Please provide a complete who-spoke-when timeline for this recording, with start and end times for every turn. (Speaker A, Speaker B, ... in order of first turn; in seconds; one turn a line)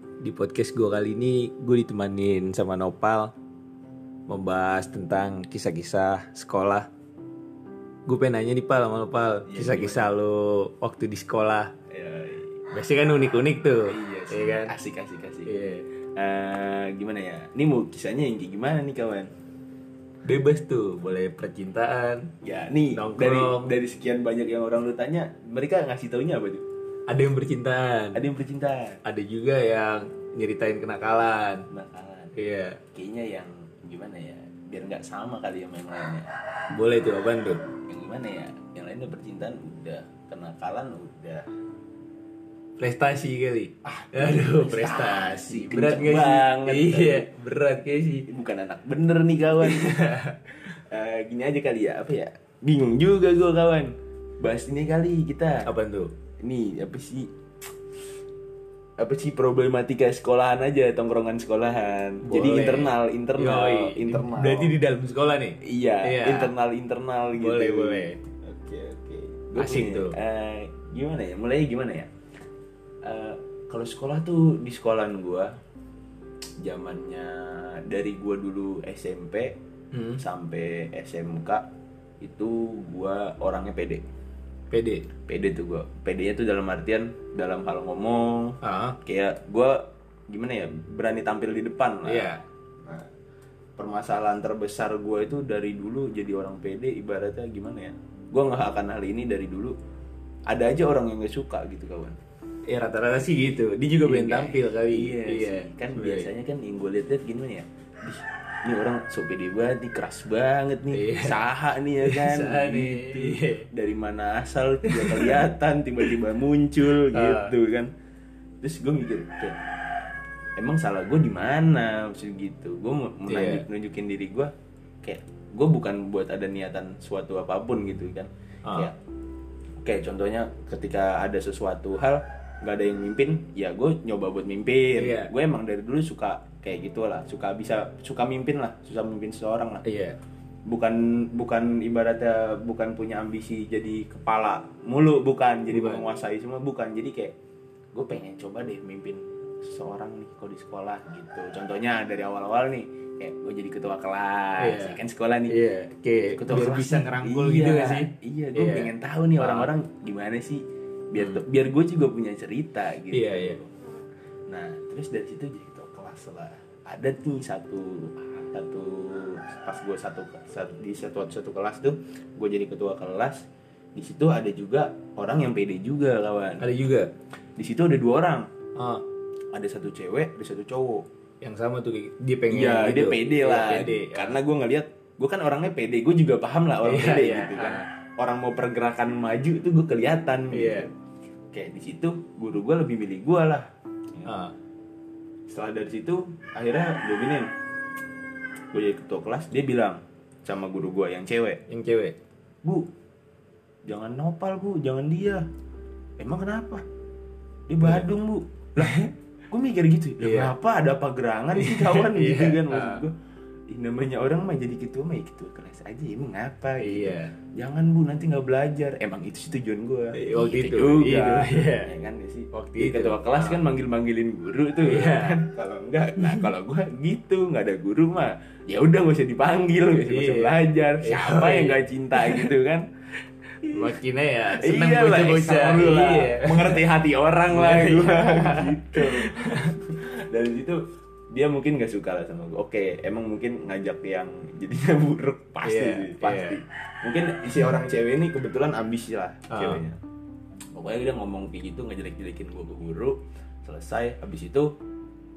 Speaker A: 0.2-3.3
Speaker A: 4.3-6.9
Speaker A: 8.1-11.7
Speaker B: 9.5-10.1
Speaker B: 11.9-12.6
Speaker A: 12.7-14.8
Speaker B: 13.9-15.5
Speaker A: 15.5-15.9
Speaker B: 16.2-19.3
Speaker A: 20.2-22.3
Speaker B: 22.4-26.6
Speaker A: 22.9-23.7
Speaker A: 27.1-28.2
Speaker B: 28.1-29.0
Speaker A: 29.1-31.7
Speaker B: 31.7-32.3
Speaker A: 32.4-32.8
Speaker B: 32.9-36.3
Speaker A: 36.7-37.6
Speaker B: 37.9-41.5
Speaker A: 42.8-48.3
Speaker B: 43.9-47.3
Speaker B: 48.3-55.6
Speaker A: 49.6-50.4
Speaker A: 55.7-56.1
Speaker B: 56.4-57.3
Speaker B: 59.0-64.7
Speaker A: 62.2-66.5
Speaker B: 65.6-72.1
Speaker A: 67.4-68.2
Speaker A: 69.6-70.2
Speaker B: 73.0-75.5
Speaker B: 76.6-79.6
Speaker A: 79.9-80.2
Speaker B: 80.2-81.6
Speaker B: 82.2-84.0
Speaker A: 84.7-85.1
Speaker B: 85.3-92.3
Speaker A: 88.6-89.0
Speaker A: 92.0-92.4
Speaker B: 92.8-93.1
Speaker B: 93.8-99.8
Speaker B: 100.5-102.2
Speaker A: 102.7-106.3
Speaker B: 104.0-117.9
Speaker A: 110.9-111.4
Speaker A: 112.0-113.7
Speaker A: 114.9-115.4
Speaker A: 117.1-117.5
Speaker B: 118.6-119.6
Speaker B: 120.6-124.5
Speaker A: 123.3-123.7
Speaker B: 125.0-128.9
Speaker A: 128.7-128.9
Speaker B: 129.8-139.8
Speaker A: 134.9-135.3
Speaker A: 139.8-140.2
Speaker B: 140.7-147.3
Speaker A: 145.7-146.0
Speaker B: 147.9-155.6
Speaker A: 154.6-159.7
Speaker B: 156.3-163.7
Speaker A: 161.2-161.4
Speaker A: 163.1-163.6
Speaker B: 164.5-173.4
Speaker B: 174.0-176.6
Speaker A: 176.6-177.1
Speaker B: 177.6-178.5
Speaker A: 178.8-179.0
Speaker B: 179.5-181.1
Speaker A: 181.4-184.4
Speaker B: 182.5-190.9
Speaker A: 186.8-187.8
Speaker A: 190.5-190.9
Speaker B: 191.5-194.3
Speaker A: 194.3-194.5
Speaker B: 195.5-197.5
Speaker B: 198.7-201.6
Speaker A: 201.7-202.2
Speaker B: 203.9-205.5
Speaker B: 206.2-206.8
Speaker B: 207.7-213.2
Speaker A: 208.8-209.1
Speaker A: 210.2-210.5
Speaker A: 211.5-213.1
Speaker B: 213.7-232.9
Speaker A: 216.8-217.3
Speaker A: 220.1-221.9
Speaker A: 222.5-223.6
Speaker A: 224.8-225.4
Speaker A: 230.0-232.5
Speaker B: 233.6-233.9
Speaker A: 233.7-236.8
Speaker B: 234.5-250.0
Speaker A: 237.5-239.8
Speaker A: 245.6-246.6
Speaker A: 249.5-249.8
Speaker B: 250.8-254.7